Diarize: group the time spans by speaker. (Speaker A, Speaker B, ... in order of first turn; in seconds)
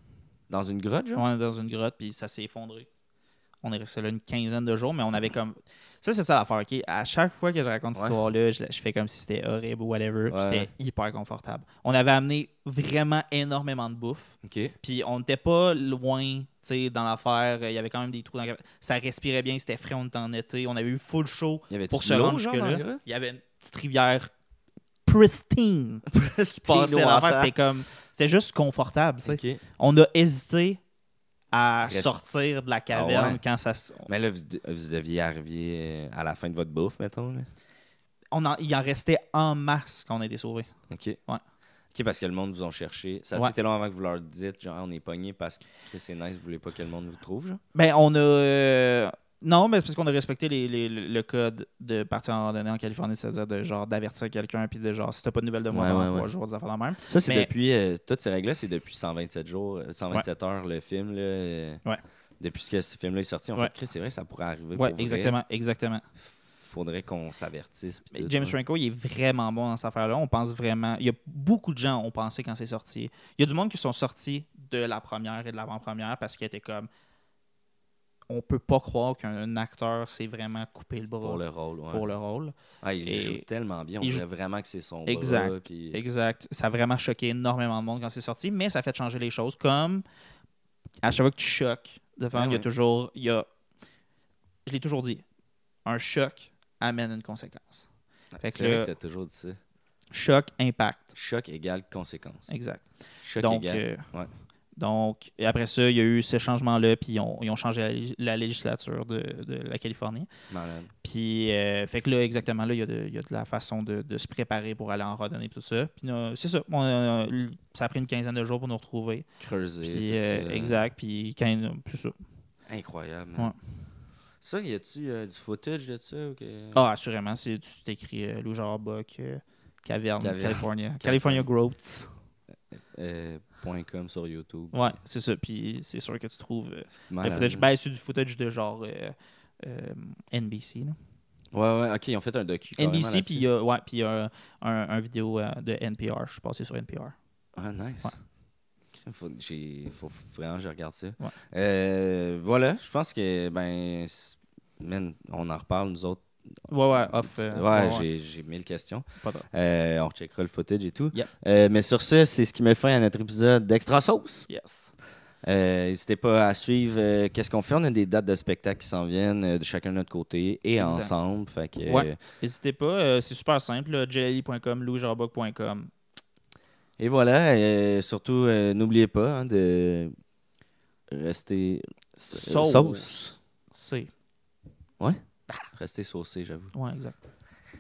Speaker A: 0.5-1.3, 10.3-10.7, 14.4-14.8, 21.7-23.0, 26.1-27.5, 29.2-29.6, 31.8-32.2, 32.9-33.4, 34.1-37.5, 40.9-41.2, 41.9-47.6, 55.7-56.3, 57.1-61.8, 62.4-65.4, 66.2-68.6, 81.2-82.1, 82.8-86.0, 92.3-92.7, 98.3-99.6, 101.1-102.5, 103.2-104.3, 110.5-110.9, 119.4-120.9, 122.7-123.5, 124.4-126.8, 130.2-131.5, 132.9-134.9, 137.1-137.7, 141.5-143.5, 147.6-148.2, 148.9-164.5, 165.4-172.2, 177.0-180.1, 181.1-183.3, 185.7-186.7
Speaker B: 1.1-2.9, 3.6-24.3, 25.1-26.1, 26.7-30.8, 31.5-34.1, 38.3-40.7, 47.8-57.5, 64.8-66.0, 68.1-76.9, 78.3-83.5, 85.1-90.0, 91.0-93.5, 94.7-95.2, 95.8-97.9, 98.4-98.9, 100.1-101.1, 102.5-104.0, 104.8-110.3, 111.0-119.3, 119.8-122.2, 126.7-132.1, 134.7-141.0, 142.8-147.2, 156.7-158.1, 159.2-159.5, 164.5-164.9, 170.8-171.2, 171.8-175.9, 182.3-184.1, 186.7-187.1